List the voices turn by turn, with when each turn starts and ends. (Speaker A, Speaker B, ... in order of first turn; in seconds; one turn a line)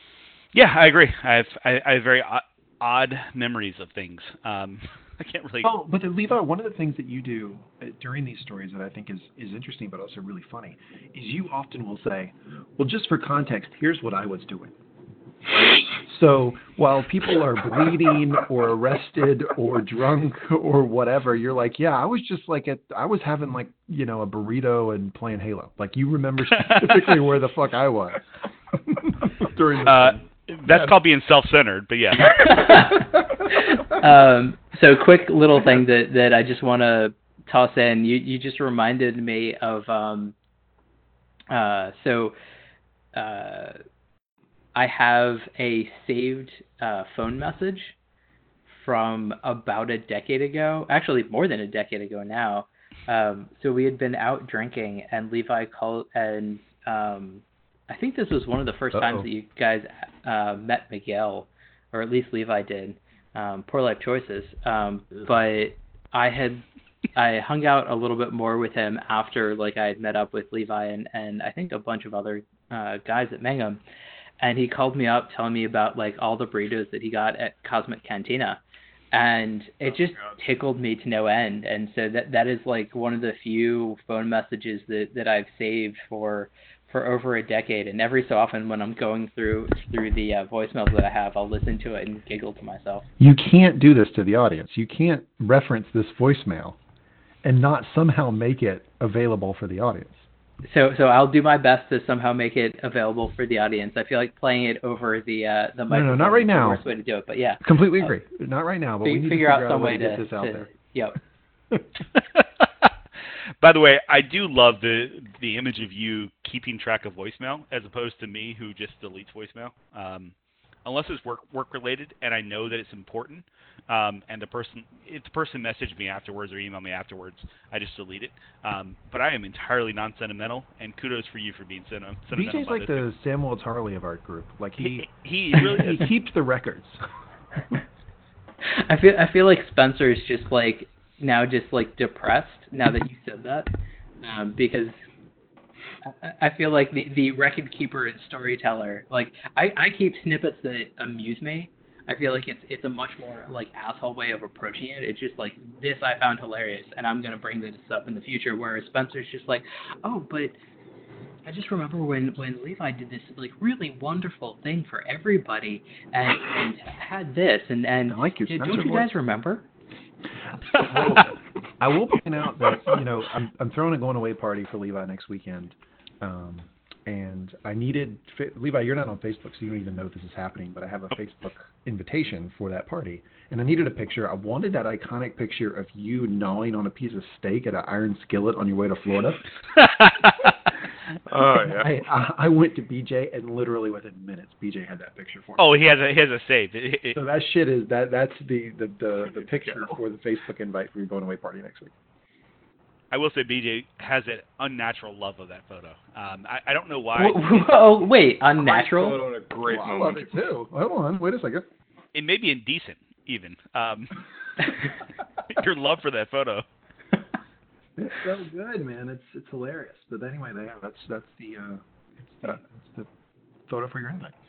Speaker A: 0.5-5.7
Speaker B: 5.6-14.7
Speaker B: 15.5-28.2
Speaker A: 26.6-26.9
Speaker B: 29.2-30.2
Speaker A: 29.8-32.8
Speaker C: 32.3-40.3
Speaker C: 41.5-42.4
Speaker C: 43.1-43.8
Speaker C: 44.7-48.0
Speaker C: 48.7-73.8
Speaker C: 74.4-78.6
Speaker C: 79.1-93.0
Speaker D: 80.1-80.3
Speaker B: 93.2-96.8
Speaker B: 97.4-100.3
Speaker C: 100.6-108.1
Speaker B: 105.9-106.8
Speaker B: 107.6-110.7
Speaker C: 109.0-111.2
Speaker A: 112.1-112.9
Speaker A: 113.6-120.3
Speaker A: 120.8-133.0
Speaker B: 132.3-137.0
Speaker A: 134.8-136.1
Speaker C: 138.6-143.7
Speaker C: 144.2-145.0
Speaker C: 146.0-160.6
Speaker C: 161.4-169.6
Speaker B: 168.1-169.1
Speaker B: 170.6-189.5
Speaker A: 189.8-190.3
Speaker D: 191.3-191.9
Speaker B: 191.5-195.7
Speaker A: 195.6-197.2
Speaker B: 197.1-201.9
Speaker D: 199.5-199.9
Speaker A: 203.1-207.5
Speaker C: 207.2-209.2
Speaker D: 208.6-210.3
Speaker B: 209.6-211.7
Speaker A: 212.1-214.9
Speaker A: 215.5-216.6
Speaker B: 218.0-223.1
Speaker B: 223.7-224.3